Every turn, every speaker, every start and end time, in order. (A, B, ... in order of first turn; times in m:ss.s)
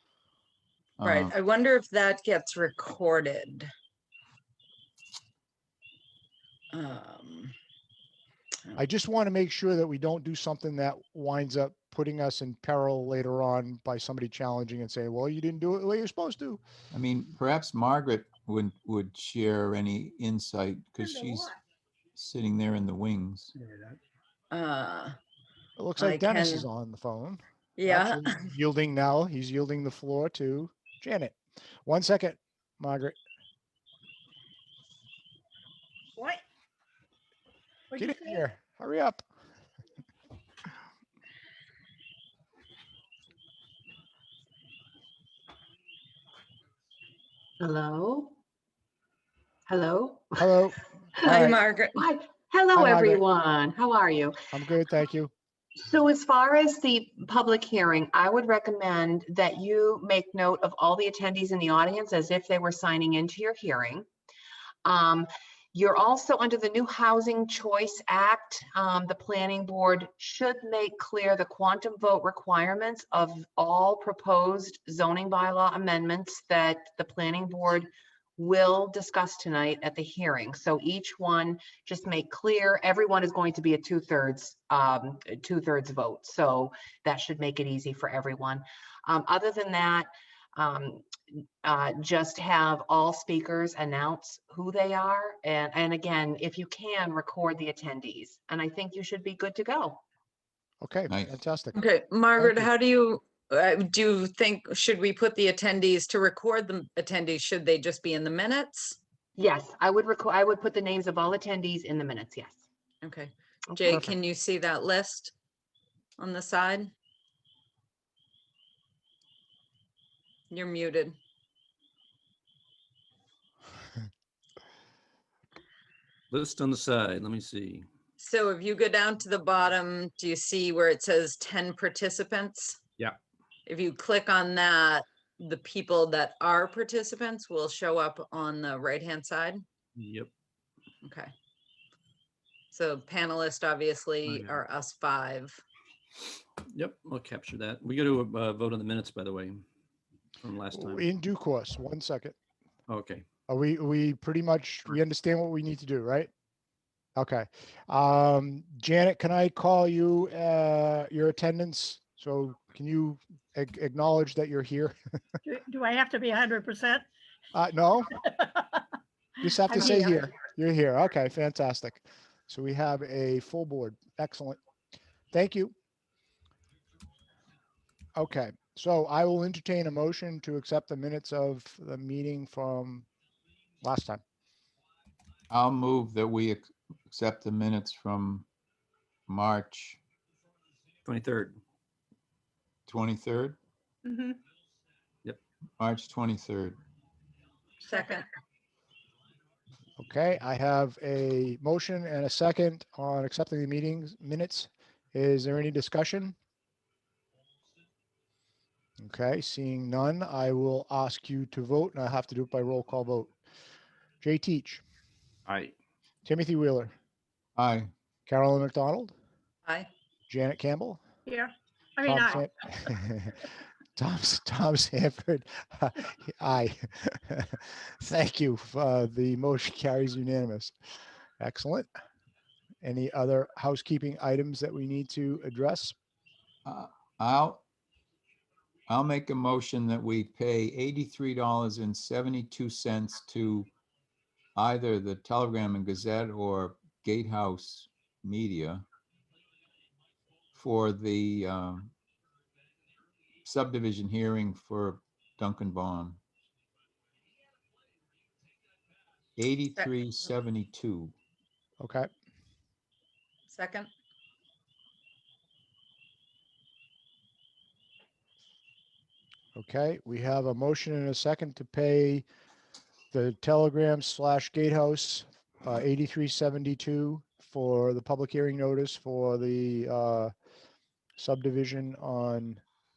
0:01.0-0:01.3 A
0:01.0-0:03.7 B
0:06.7-0:07.6 B
0:08.8-0:16.6 C
0:16.9-0:21.5 A
0:22.2-0:23.5 A
0:23.6-0:24.0 D
0:24.5-0:25.2 B
0:25.8-0:33.2 C
0:26.0-0:26.7 B
0:27.8-0:28.4 B
0:37.9-0:38.4 E
0:38.0-0:39.2 C
0:47.6-0:48.4 F
0:49.7-0:50.5 F
0:50.4-0:51.3 C
0:51.2-0:54.4 F
0:51.2-0:52.1 B
0:52.8-0:53.2 C
0:54.5-0:55.3 C
0:55.8-1:04.1 F
1:04.8-1:31.1 F
1:31.6-1:40.0 F
1:40.8-1:41.8 C
1:41.7-1:49.0 B
1:42.4-1:42.7 C
1:49.4-1:52.6 F
1:53.0-1:55.3 B
1:53.7-1:54.2 F
1:56.2-1:56.9 B
2:00.5-2:01.2 B
2:06.3-2:07.9 D
2:08.2-2:12.8 B
2:13.7-2:19.6 B
2:20.0-2:20.3 D
2:21.0-2:21.3 B
2:22.7-2:25.6 B
2:24.2-2:24.6 D
2:26.7-2:29.7 D
2:30.4-2:31.0 D
2:30.7-2:32.4 C
2:32.9-2:33.3 D
2:33.5-2:36.3 C
2:37.2-2:45.0 C
2:45.4-2:47.1 E
2:47.5-2:48.2 C
2:49.4-2:54.6 C
2:49.7-2:50.2 E
2:55.3-2:55.7 C
2:58.2-3:03.1 C
3:03.8-3:04.2 C
3:05.5-3:08.5 A
3:09.3-3:10.0 A
3:11.1-3:11.6 D
3:12.9-3:13.6 A
3:14.1-3:14.4 E
3:15.8-3:16.8 A
3:17.9-3:18.3 B
3:20.0-3:26.4 C
3:29.0-3:33.3 C
3:34.2-3:34.8 C
3:35.5-3:35.7 D
3:36.2-3:36.9 C
3:37.6-3:37.9 A
3:38.3-3:39.1 C
3:40.3-3:41.0 C
3:41.3-3:42.9 E
3:42.0-3:50.7 C
3:51.4-3:51.9 C
3:52.8-3:56.0 C
3:56.6-3:57.6 A
3:58.9-4:03.7 A
4:04.6-4:08.9 A
4:10.5-4:11.9 A
4:13.4-4:16.2 A
4:19.4-4:21.1 A
4:21.8-4:22.1 C
4:23.5-4:23.9 B
4:29.6-4:32.2 C
4:33.1-4:40.3 C
4:41.2-4:42.6 C